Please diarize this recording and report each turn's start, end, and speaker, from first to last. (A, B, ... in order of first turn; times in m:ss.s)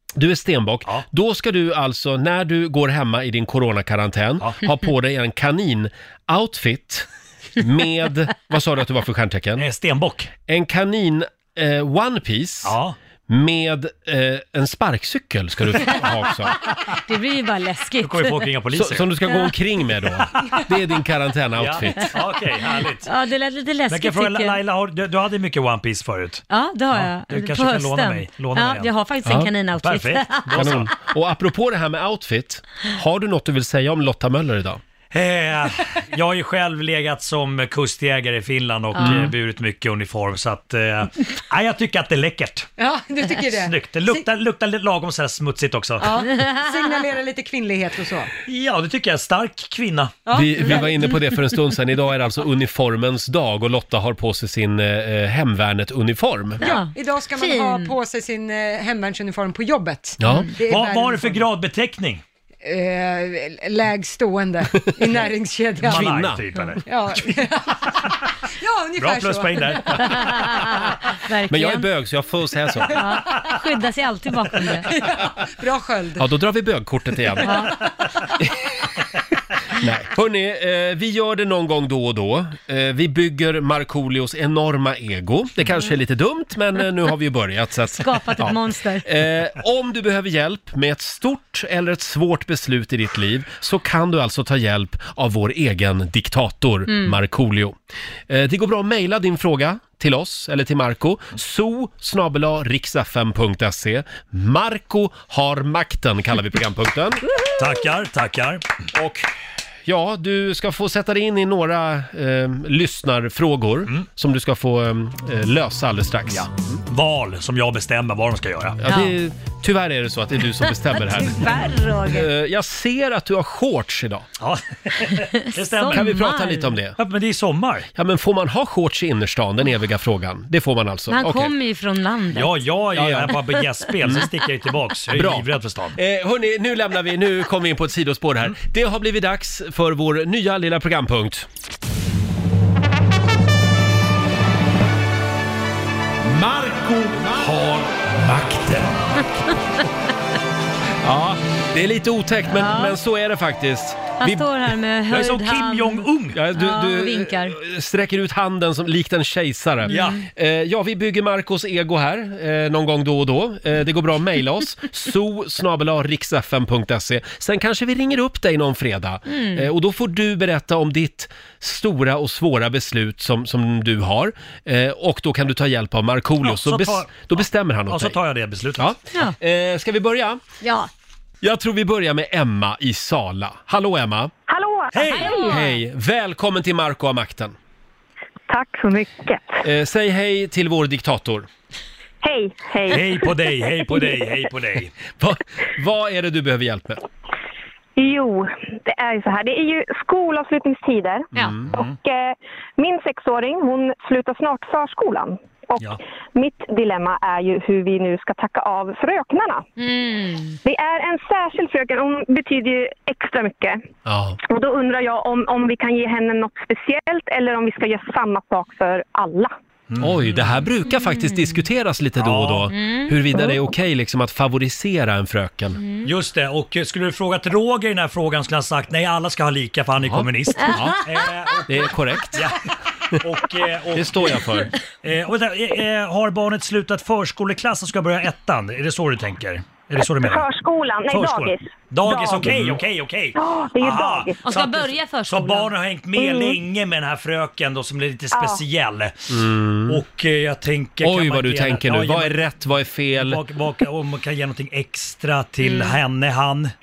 0:00.2-0:09.7 A
0:09.6-0:10.3 B
0:10.5-0:12.8 A
0:12.6-0:13.0 B
0:13.3-0:16.6 A
0:16.9-0:18.5 C
0:18.0-0:19.1 B
0:18.7-0:22.2 A
0:20.2-0:20.6 B
0:21.6-0:23.1 B
0:22.8-0:24.6 C
0:23.9-0:28.9 B
0:26.5-0:30.9 C
0:29.2-0:29.5 A
0:29.8-0:30.9 B
0:30.6-0:34.8 A
0:35.1-0:42.7 B
0:39.0-0:39.3 C
0:39.0-0:39.3 A
0:42.8-0:44.2 D
0:43.5-0:46.1 B
0:46.0-0:48.3 D
0:48.4-0:50.2 B
0:50.3-0:50.7 D
0:50.3-0:56.6 A
0:56.6-0:57.9 C
0:56.6-1:01.5 D
1:00.2-1:00.5 A
1:00.3-1:00.5 C
1:00.6-1:02.2 B
1:02.6-1:06.3 D
1:05.8-1:06.8 B
1:05.8-1:06.5 A
1:06.8-1:10.1 D
1:09.0-1:11.0 B
1:10.1-1:11.9 C
1:11.5-1:13.0 A
1:12.9-1:14.9 C
1:14.9-1:16.3 D
1:16.2-1:17.7 A
1:17.4-1:17.8 C
1:19.8-1:37.8 A
1:28.0-1:29.1 C
1:36.9-1:37.2 C
1:38.3-1:47.3 A
1:47.6-1:48.6 B
1:48.9-1:49.3 A
1:49.9-1:56.8 A
1:56.3-1:58.8 B
1:58.8-2:04.3 A
1:58.9-1:59.2 C
2:00.8-2:02.3 C
2:04.4-2:06.1 B
2:05.3-2:06.8 C
2:05.9-2:07.0 A
2:07.0-2:07.9 B
2:08.0-2:11.5 A
2:11.1-2:12.6 C
2:12.3-2:16.0 B
2:13.0-2:13.4 A
2:14.0-2:14.3 A
2:15.1-2:21.5 A
2:26.3-2:27.5 B
2:27.2-2:28.9 A
2:31.0-2:34.4 A
2:32.5-2:33.0 C
2:34.2-2:37.6 C
2:35.1-2:36.4 B
2:36.4-2:58.2 A
2:39.9-2:40.2 C
2:39.9-2:40.2 B
2:49.3-2:49.7 C
2:56.4-2:58.9 B
2:58.8-3:00.4 A
3:00.6-3:00.9 C
3:01.4-3:04.3 A
3:04.5-3:05.3 E
3:04.9-3:05.3 B
3:05.1-3:05.8 C
3:05.3-3:07.6 A
3:08.5-3:09.6 E
3:09.6-3:11.5 A
3:12.2-3:14.1 E
3:12.9-3:14.9 B
3:15.2-3:17.0 A
3:18.0-3:29.7 E
3:21.3-3:21.7 A
3:29.8-3:30.6 C
3:30.6-3:33.8 E
3:34.1-3:34.4 A
3:34.5-3:39.5 E
3:39.9-3:40.4 B
3:40.0-3:45.8 A
3:40.9-3:41.6 C
3:42.2-3:42.7 B
3:42.7-3:43.5 C
3:45.8-3:46.1 C
3:46.0-3:52.6 B
3:50.0-3:51.0 A
3:51.7-3:52.5 A
3:53.1-3:54.4 B
3:54.0-3:54.7 A
3:55.0-4:00.4 B
4:00.2-4:02.6 E
4:01.1-4:09.2 B
4:02.4-4:02.8 A
4:03.4-4:04.4 E
4:04.4-4:05.7 C
4:06.2-4:06.6 E
4:08.3-4:08.6 E
4:09.3-4:10.0 A
4:09.9-4:12.4 B
4:11.0-4:13.4 A
4:13.2-4:16.7 B